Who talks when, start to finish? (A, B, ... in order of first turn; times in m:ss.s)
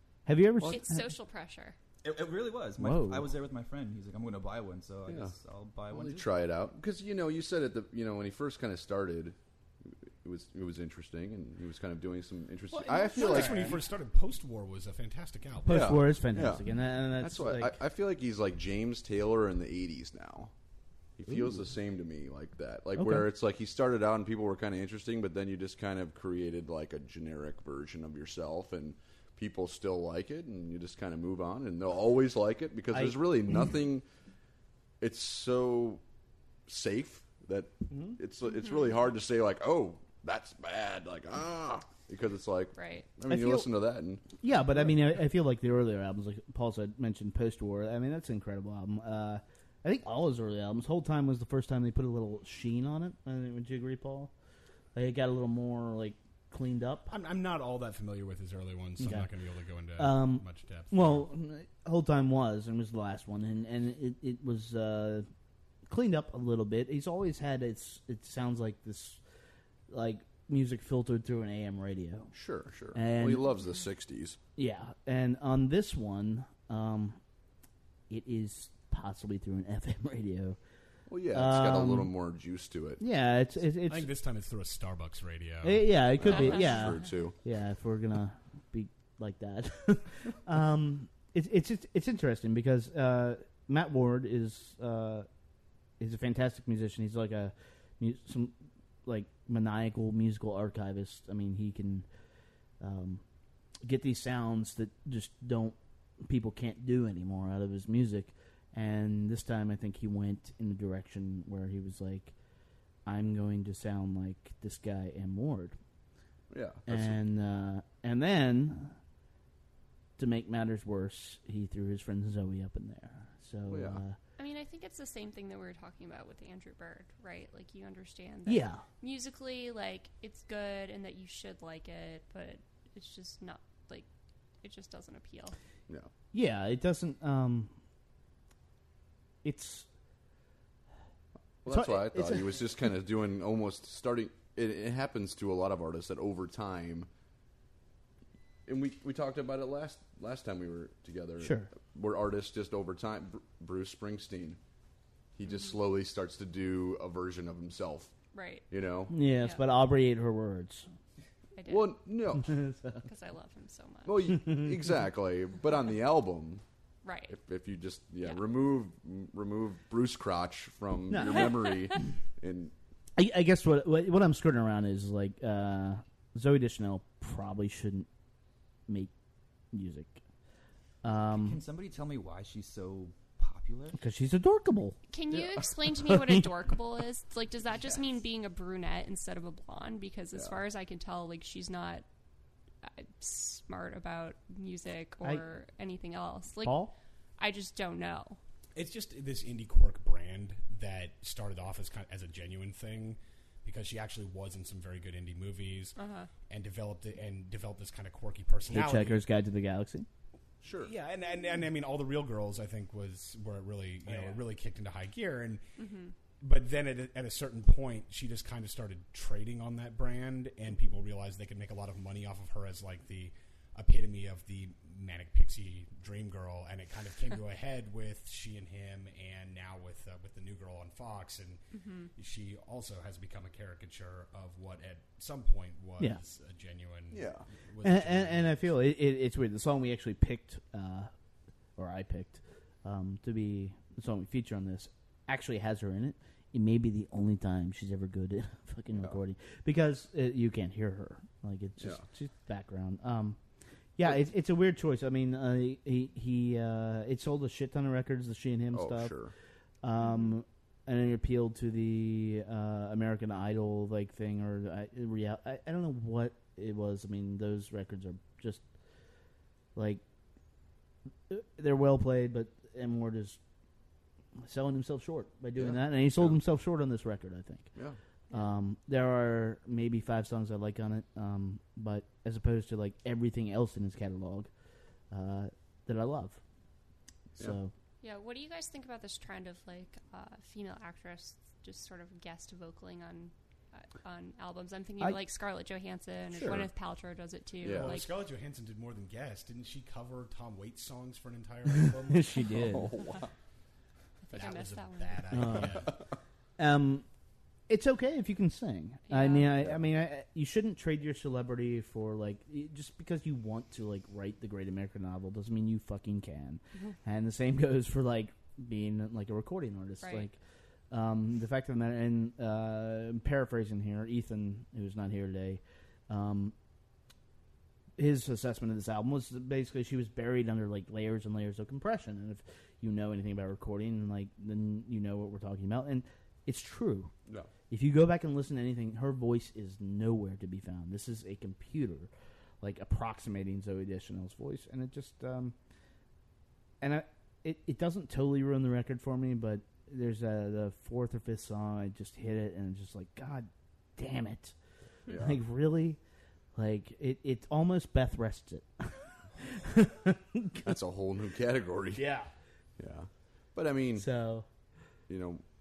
0:00.3-0:01.1 A
0:00.7-0:01.8 B
0:02.0-0:06.3 C
0:02.8-0:03.4 A
0:05.1-0:05.4 D
0:05.9-0:13.8 D
0:12.7-0:13.8 A
0:12.9-0:16.0 E
0:15.6-0:17.8 A
0:15.7-0:20.5 D
0:21.2-0:34.1 D
0:21.3-0:21.7 A
0:23.0-0:23.3 A
0:32.9-0:33.7 A
0:35.0-0:36.0 D
0:36.7-0:44.3 D
0:37.9-0:38.2 A
0:38.5-0:39.0 B
0:42.8-0:43.1 B
0:43.3-0:43.7 A
0:44.4-0:54.3 A
0:55.0-0:57.1 A
0:57.1-1:01.3 E
0:59.0-0:59.3 A
1:00.0-1:05.3 A
1:05.9-1:09.2 A
1:09.9-1:12.3 A
1:12.3-1:14.4 D
1:12.9-1:13.5 A
1:14.6-1:17.2 A
1:18.1-1:20.6 A
1:21.1-1:23.0 D
1:21.3-1:22.1 A
1:23.0-1:24.1 A
1:23.9-1:25.9 E
1:25.6-1:35.3 A
1:26.2-1:27.4 D
1:26.3-1:26.8 B
1:36.0-1:38.5 A
1:39.1-1:42.1 A
1:42.8-1:43.2 A
1:43.8-1:52.3 A
1:53.1-1:55.8 A
1:56.5-1:57.2 D
1:56.9-1:59.0 A
2:00.2-2:04.2 A
2:03.7-2:04.0 D
2:04.4-2:14.1 B
2:08.5-2:08.8 A
2:14.6-2:15.6 B
2:16.3-2:17.8 A
2:19.4-2:19.9 A
2:21.6-2:27.1 D
2:21.7-2:22.6 A
2:28.7-2:34.6 D
2:31.4-2:31.7 A
2:35.4-2:38.1 D
2:38.3-2:38.7 B
2:38.7-2:39.2 D
2:39.1-2:40.9 A
2:41.6-2:42.0 B
2:41.7-2:42.6 D
2:42.4-2:43.1 A
2:43.0-2:44.2 B
2:44.0-2:46.6 D
2:44.3-2:44.8 A
2:47.0-2:47.4 B
2:47.3-2:52.7 D
2:51.1-2:51.8 A
2:53.2-2:58.1 A
2:59.7-3:00.2 A
3:01.0-3:01.6 A
3:01.3-3:04.0 C
3:04.0-3:05.0 A
3:05.1-3:12.0 B
3:05.3-3:05.6 D
3:06.1-3:06.4 A
3:12.8-3:16.8 B
3:16.6-3:16.9 A
3:17.4-3:18.4 B
3:18.8-3:26.0 E
3:26.0-3:26.3 B
3:26.5-3:29.2 E
3:28.7-3:30.1 A
3:30.6-3:30.9 D
3:30.8-3:35.6 E
3:34.1-3:34.4 C
3:35.8-3:36.1 B
3:36.4-3:51.6 E
3:51.8-3:52.1 B
3:52.2-3:58.7 E
3:57.1-3:57.5 D
3:57.8-4:01.1 A
4:01.8-4:13.4 A
4:11.8-4:12.0 D
4:14.0-4:19.2 A
4:18.7-4:19.3 D
4:19.8-4:28.6 A
4:29.8-4:30.0 A
4:31.3-4:33.4 A
4:34.4-4:37.8 A
4:35.6-4:36.4 D
4:38.3-4:44.5 A
4:45.1-4:46.4 A
4:47.4-4:47.7 A
4:48.0-4:58.1 B
4:56.4-4:56.7 D
4:57.6-4:58.0 D
4:57.6-5:02.4 E
5:01.8-5:03.1 A
5:02.5-5:03.3 D
5:04.2-5:05.3 B
5:04.3-5:06.0 E
5:05.3-5:06.0 A
5:06.6-5:07.1 A
5:07.7-5:20.4 A
5:09.1-5:09.6 B
5:20.0-5:20.3 B
5:20.9-5:26.5 A
5:28.0-5:37.1 A
5:37.7-5:42.1 A
5:42.6-5:45.6 A
5:46.8-5:54.6 A
5:55.1-5:55.4 D
5:55.1-5:56.0 A
5:56.6-6:00.7 A
6:00.6-6:02.1 D
6:02.0-6:02.3 A
6:02.8-6:04.1 D
6:04.0-6:04.5 A
6:05.1-6:05.4 D